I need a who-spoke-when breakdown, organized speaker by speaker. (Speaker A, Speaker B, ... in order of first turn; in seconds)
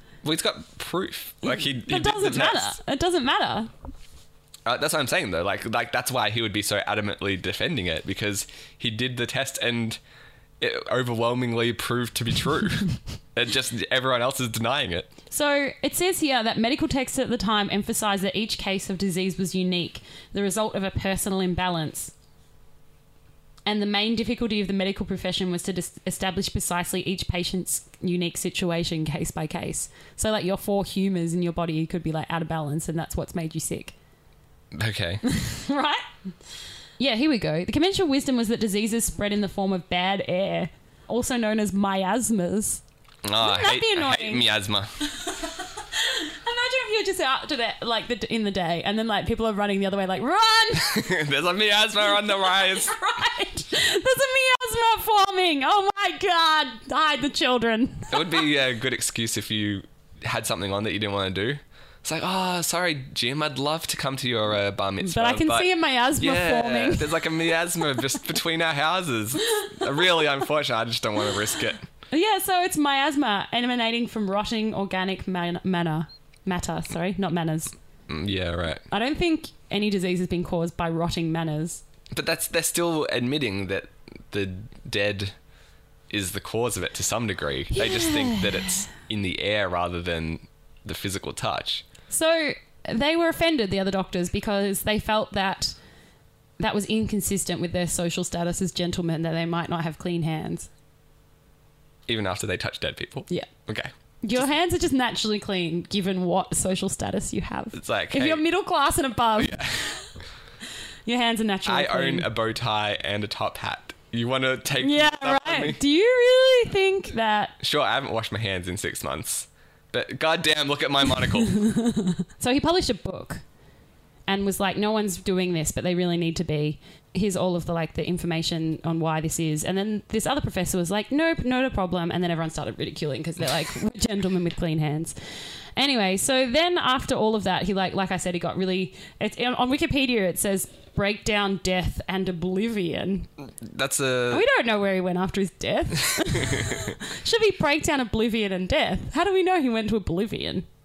Speaker A: 0.2-2.8, 4.6-10.0, 10.6-15.1, 34.7-35.2, 43.2-45.0, 50.7-52.9, 58.1-71.8, 78.1-78.8, 82.1-85.3, 86.1-91.8, 102.1-104.4, 107.7-108.4, 109.4-110.0, 111.6-115.8, 117.6-121.5, 143.6-144.4, 146.1-146.9
Speaker B: 1.4-3.7, 15.3-22.1, 23.6-33.9, 35.2-36.0, 37.0-42.8, 43.4-44.5, 45.0-51.1, 52.1-58.5, 65.0-67.5, 72.1-77.7, 78.9-81.8, 87.7-88.7, 92.1-95.8, 96.6-100.7, 104.2-109.8, 111.0-112.3, 114.8-117.5, 121.4-123.4, 124.3-135.1, 135.8-143.3, 144.3-150.6